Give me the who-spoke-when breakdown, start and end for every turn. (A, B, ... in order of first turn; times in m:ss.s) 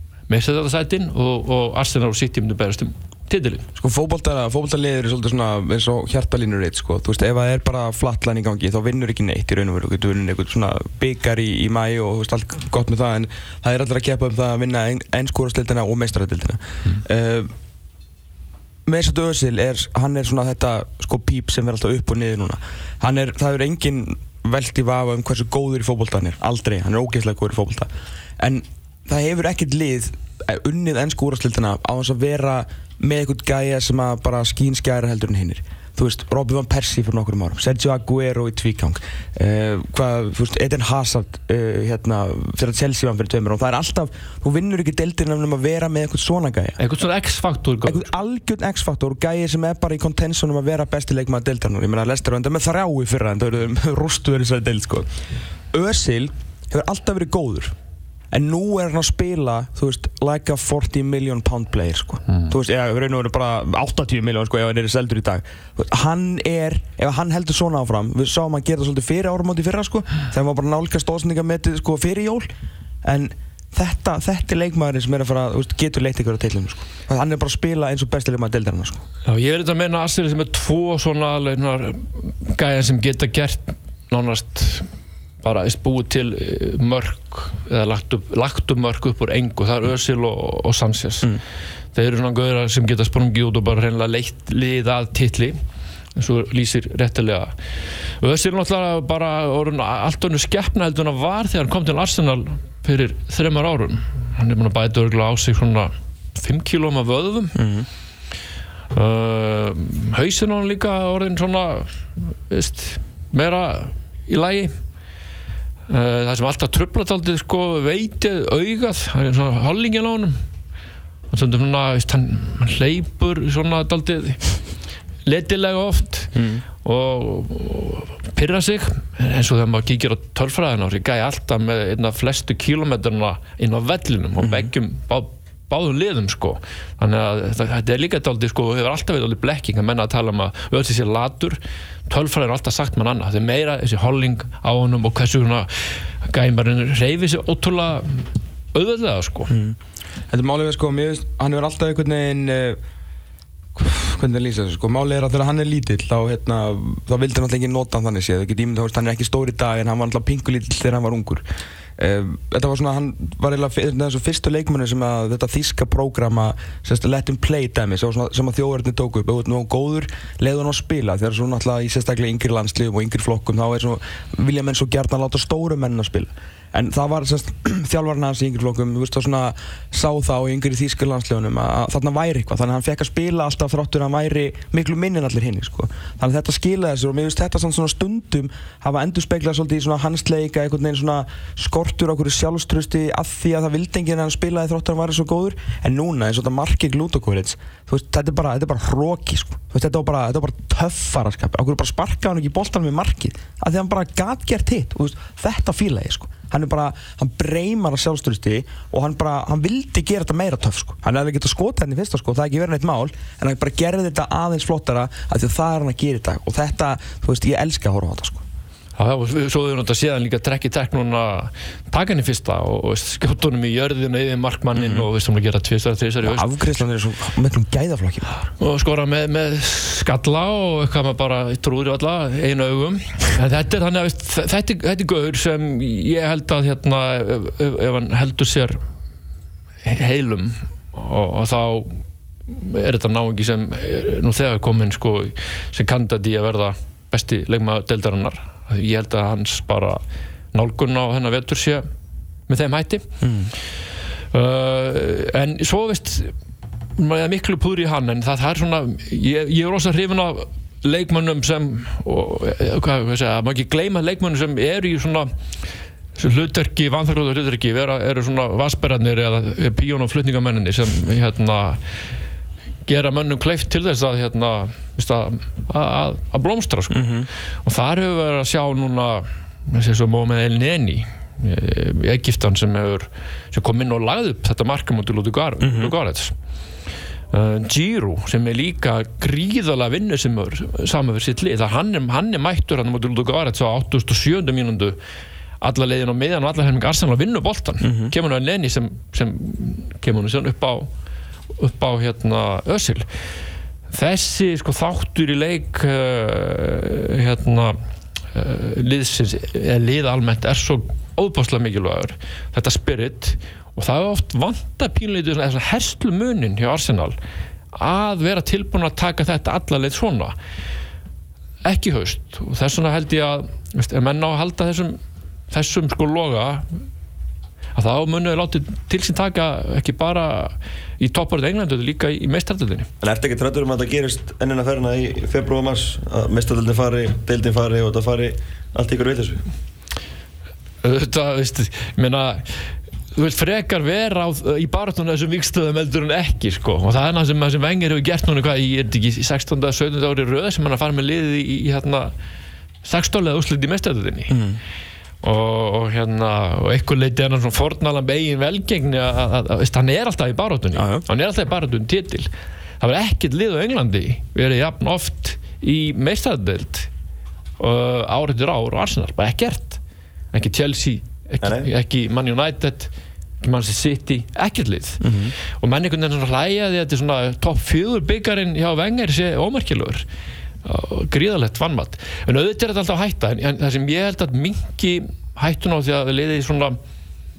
0:00.3-0:03.6 A
0:03.8-0:17.5 B
0:18.9-0:46.8 B
0:46.8-0:48.1 A
0:47.8-0:55.1 B
0:55.7-0:57.7 B
0:58.3-1:12.5 B
1:13.0-1:19.0 B
1:19.3-1:24.9 A
1:25.4-1:31.3 A
1:31.9-1:35.6 A
1:36.2-1:37.5 A
1:38.2-1:47.6 A
1:47.6-1:47.9 B
1:48.9-1:51.9 A
1:52.5-1:54.7 A
1:55.9-2:00.4 A
2:01.3-2:04.5 A
2:05.2-2:06.3 A
2:06.3-2:06.6 B
2:06.8-2:25.7 A
2:14.4-2:14.7 B
2:26.2-2:29.5 A
2:29.5-2:29.8 B
2:30.3-2:32.8 B
2:33.8-2:41.4 B
2:42.0-3:38.4 B
3:39.0-3:46.5 A
3:44.8-3:45.1 B
3:46.2-3:48.4 B
3:48.6-3:58.8 A
3:59.8-4:10.0 A
4:10.5-4:11.8 A
4:12.5-4:13.1 A
4:13.2-4:13.5 B
4:14.3-4:16.3 A
4:17.0-4:25.3 A
4:26.2-4:31.8 A
4:32.9-4:37.1 A
4:36.9-4:37.3 B
4:37.6-4:46.3 A
4:45.6-4:45.9 B
4:47.3-4:55.0 A
4:55.6-5:00.9 A
4:57.8-4:58.1 B
5:01.6-5:03.0 A
5:03.9-5:07.8 A
5:08.3-5:17.2 A
5:17.7-5:20.4 A
5:21.6-5:25.0 A
5:25.5-5:26.7 A
5:27.8-5:32.9 A
5:33.0-5:39.4 C
5:40.8-5:42.6 A
5:43.2-5:52.1 A
5:52.8-5:54.4 A
5:54.3-5:54.6 B
5:55.2-6:02.3 A
6:00.8-6:01.0 B
6:02.8-6:06.9 A
6:07.6-6:09.8 A
6:10.3-6:20.0 A
6:11.4-6:11.7 C
6:15.0-6:15.3 B
6:20.6-6:26.8 A